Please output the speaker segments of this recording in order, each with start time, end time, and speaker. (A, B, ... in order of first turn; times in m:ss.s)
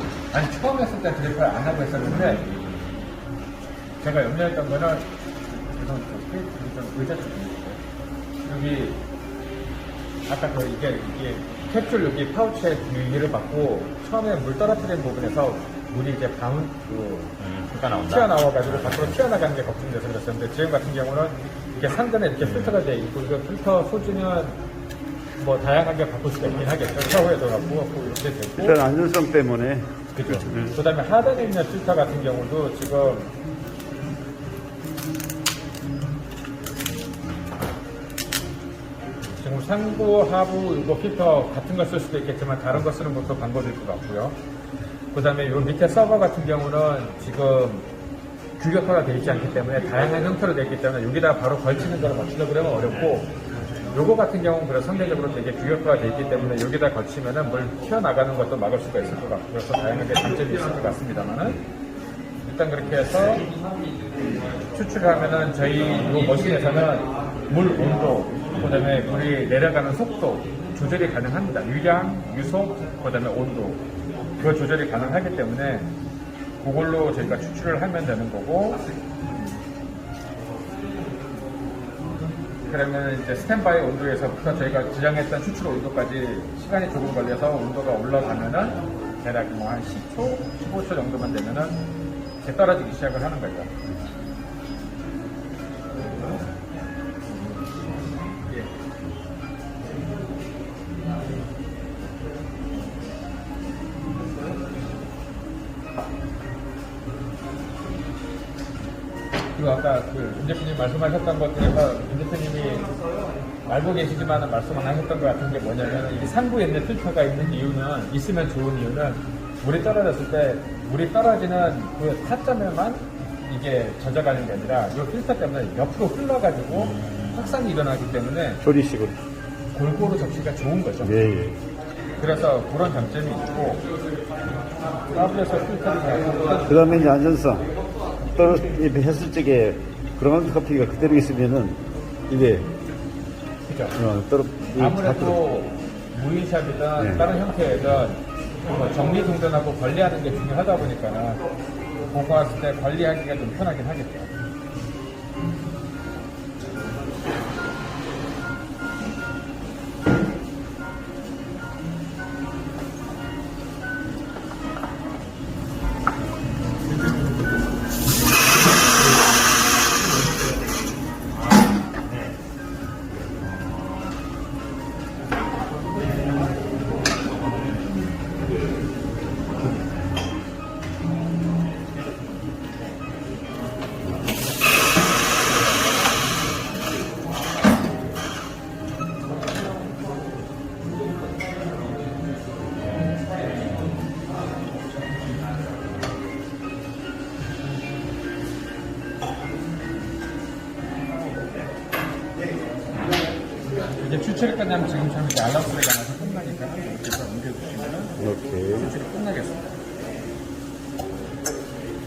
0:00.3-0:02.6 A
0:02.5-0:02.9 B
0:04.0-0:07.8 A
0:08.4-0:09.0 A
0:10.3-0:17.3 A
0:17.4-0:19.2 B
0:17.9-0:24.6 A
0:22.4-0:22.8 B
0:25.4-0:28.8 A
0:28.6-0:30.7 C
0:30.2-0:33.3 A
0:39.4-0:44.4 A
0:45.1-0:47.9 A
0:48.6-0:53.3 A
0:52.9-0:53.2 B
0:53.9-1:01.6 A
1:02.4-1:03.5 A
1:04.7-1:13.8 A
1:08.5-1:09.1 B
1:14.4-1:15.9 A
1:16.6-1:18.9 A
1:22.6-1:31.8 A
1:32.4-1:33.7 A
1:49.6-1:52.9 A
1:53.7-2:08.6 A
2:06.7-2:07.5 B
2:08.6-2:09.2 C
2:09.7-2:11.2 A
2:11.0-2:11.6 C
2:12.2-2:13.9 A
2:15.1-2:16.7 A
2:16.6-2:17.7 C
2:18.2-2:22.7 C
2:23.6-2:24.0 A
2:24.0-2:25.4 C
2:24.8-2:31.4 A
2:27.0-2:27.3 C
2:32.1-2:34.3 A
2:51.6-2:52.3 B
2:53.6-2:54.0 B
3:24.0-3:29.6 A
3:28.2-3:28.9 C